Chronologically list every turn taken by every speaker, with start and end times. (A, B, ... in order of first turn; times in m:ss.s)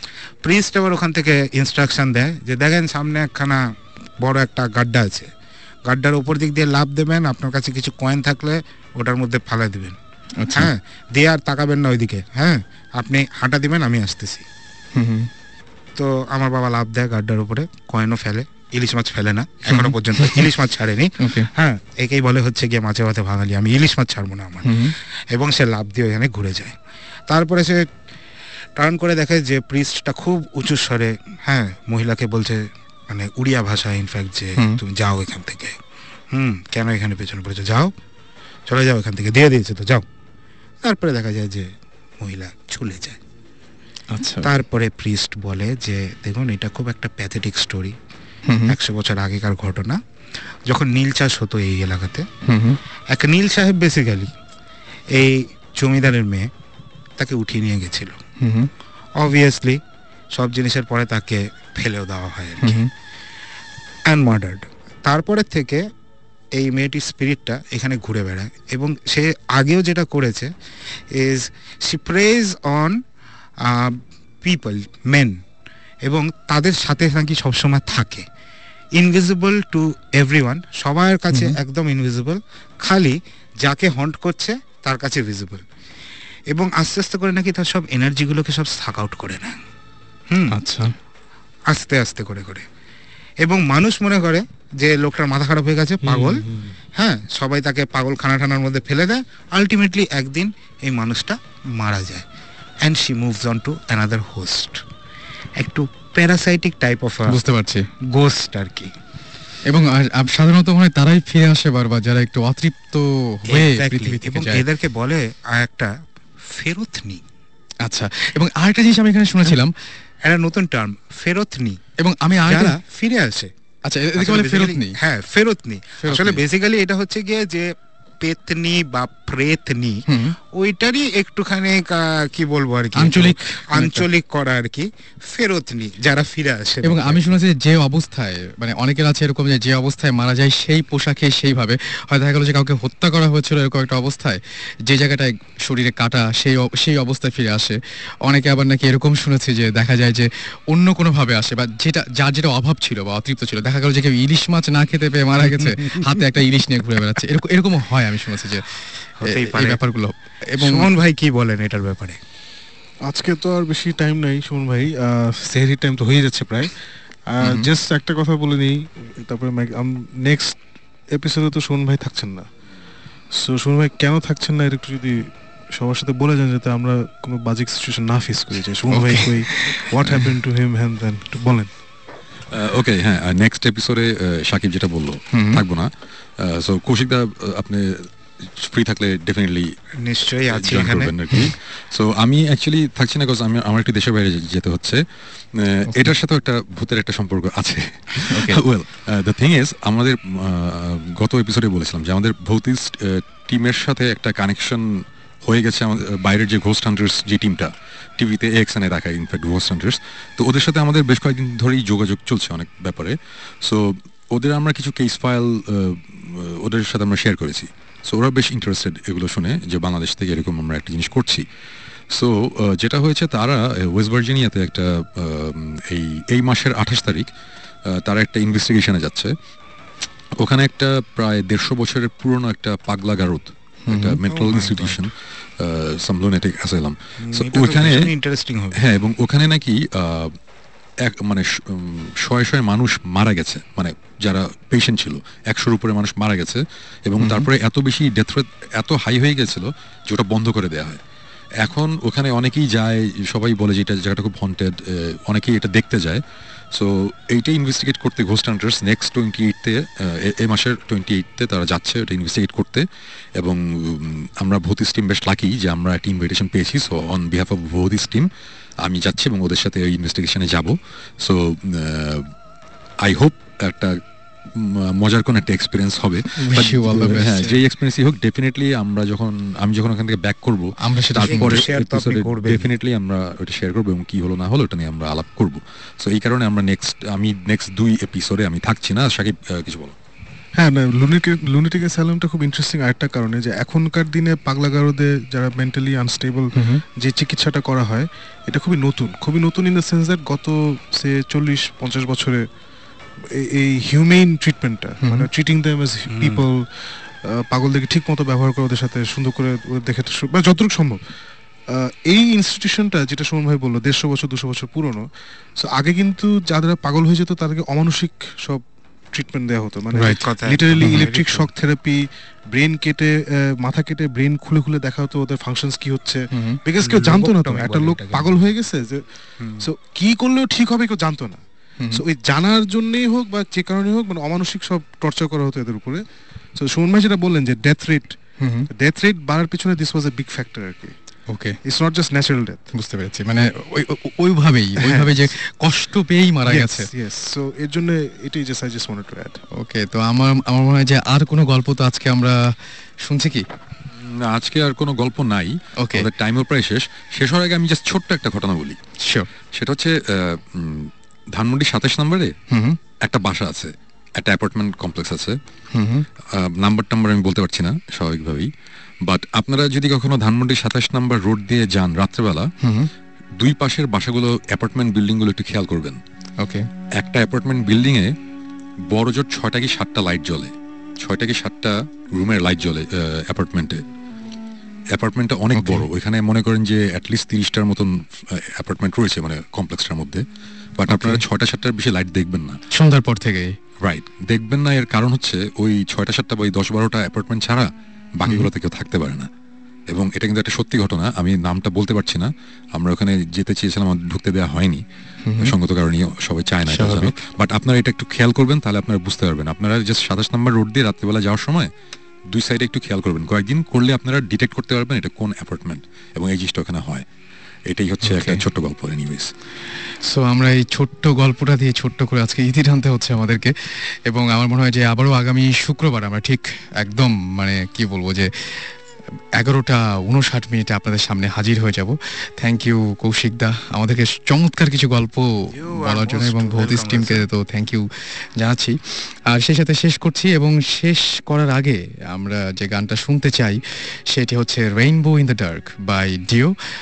0:00.4-0:03.6 A
0:04.2-0:05.3 A
0:05.8-0:10.0 A
0:10.4-0:10.7 B
0:10.5-0:14.4 A
0:14.9-0:15.3 B
0:16.0-0:24.8 A
0:19.7-0:20.5 B
0:21.2-0:21.5 B
0:24.6-0:24.9 B
0:25.3-0:26.7 A
0:27.3-0:27.8 A
0:28.8-0:35.7 A
0:36.3-0:37.9 A
0:38.7-0:40.0 A
0:40.8-0:41.7 A
0:42.2-0:43.2 A
0:44.1-0:44.5 B
0:44.4-0:47.9 A
0:48.5-0:48.7 B
0:48.7-0:50.0 A
0:50.7-0:52.2 A
0:52.5-0:52.8 B
0:53.1-0:54.3 A
0:55.1-0:56.5 A
0:57.2-0:58.2 A
0:58.4-0:58.7 B
0:59.2-0:59.8 A
1:00.3-1:02.8 A
1:02.6-1:02.9 B
1:04.1-1:05.8 A
1:06.6-1:10.5 A
1:11.1-1:13.0 A
1:13.6-1:15.3 A
1:16.0-1:18.2 A
1:18.9-1:25.6 A
1:26.5-1:29.6 A
1:30.5-1:30.9 B
1:31.7-1:32.6 A
1:33.4-1:36.4 A
1:36.0-1:36.7 C
1:37.0-1:42.2 A
1:42.8-1:44.8 A
1:45.6-1:47.4 A
1:47.3-1:47.9 B
1:48.1-1:48.9 A
1:49.7-1:54.6 B
1:53.5-1:55.9 A
1:56.5-1:57.2 A
1:57.8-1:59.7 B
2:00.2-2:01.8 A
2:02.0-2:02.8 B
2:02.4-2:03.5 A
2:03.8-2:04.9 B
2:04.2-2:07.7 A
2:06.0-2:06.4 B
2:08.2-2:10.0 A
2:10.1-2:10.3 B
2:10.5-2:17.3 A
2:13.0-2:14.0 B
2:16.8-2:40.9 B
2:35.4-2:35.7 A
2:39.2-2:39.8 A
2:40.6-2:42.2 A
2:43.0-2:46.7 C
2:47.3-2:50.6 C
2:47.4-2:47.7 B
2:51.1-2:52.5 C
2:53.3-3:01.7 C
2:58.9-3:00.2 B
3:02.5-3:09.7 D
3:05.3-3:05.6 B
3:10.0-3:11.1 A
3:10.5-3:15.0 D
3:15.5-3:24.8 D
3:18.3-3:18.6 B
3:25.4-3:41.4 D
3:42.1-3:47.3 D
3:47.9-3:49.3 D
3:50.4-3:58.1 D
3:53.8-3:54.2 B
3:54.2-3:55.0 A
3:57.2-3:58.8 A
3:58.7-4:00.3 D
4:01.1-4:11.0 D
4:07.2-4:07.5 B
4:11.6-4:16.2 D
4:16.7-4:22.8 D
4:23.4-4:28.3 D
4:28.8-4:32.3 D
4:33.0-4:34.0 D
4:34.5-4:49.9 D
4:36.4-4:37.5 B
4:40.8-4:41.6 B
4:41.3-4:42.7 A
4:50.6-5:02.4 C
4:56.5-4:56.8 B
5:03.3-5:06.6 C
5:05.0-5:05.3 B
5:06.1-5:06.4 A
5:07.2-5:11.0 C
5:11.7-5:15.0 C
5:15.6-5:18.6 C
5:19.1-5:29.0 C
5:19.9-5:20.2 B
5:20.2-5:21.5 A
5:20.8-5:21.0 B
5:26.3-5:26.6 B
5:26.8-5:28.4 A
5:29.4-5:29.7 A
5:29.6-5:36.0 C
5:36.6-5:38.2 C
5:38.4-5:38.7 B
5:38.7-5:40.9 C
5:41.3-5:41.6 B
5:41.6-5:42.7 C
5:42.7-5:46.9 B
5:44.8-5:45.3 C
5:46.4-5:49.4 C
5:49.5-5:52.4 B
5:53.0-5:53.4 B
5:53.9-5:58.8 D
5:55.8-5:56.1 B
5:59.0-5:59.3 B
5:59.5-6:02.3 D
6:02.5-6:02.8 B
6:03.0-6:05.4 D
6:05.7-6:06.0 B
6:06.3-6:08.5 D
6:09.1-6:12.5 D
6:12.6-6:12.9 B
6:13.4-6:16.0 D
6:16.4-6:16.6 B
6:17.0-6:18.1 D
6:18.9-6:23.8 D
6:24.9-6:30.2 D
6:25.5-6:25.8 B
6:30.8-6:32.6 D
6:30.9-6:31.2 B
6:32.7-6:33.5 B
6:33.8-6:39.3 D
6:39.9-6:44.8 D
6:45.2-6:45.5 B
6:45.4-6:51.7 D
6:46.7-6:47.2 B
6:52.3-6:57.0 D
6:57.7-6:59.3 D
6:58.0-6:58.4 B
7:00.0-7:08.3 B
7:09.4-7:17.9 B
7:15.5-7:17.3 A
7:18.4-7:18.8 B
7:19.3-7:26.5 B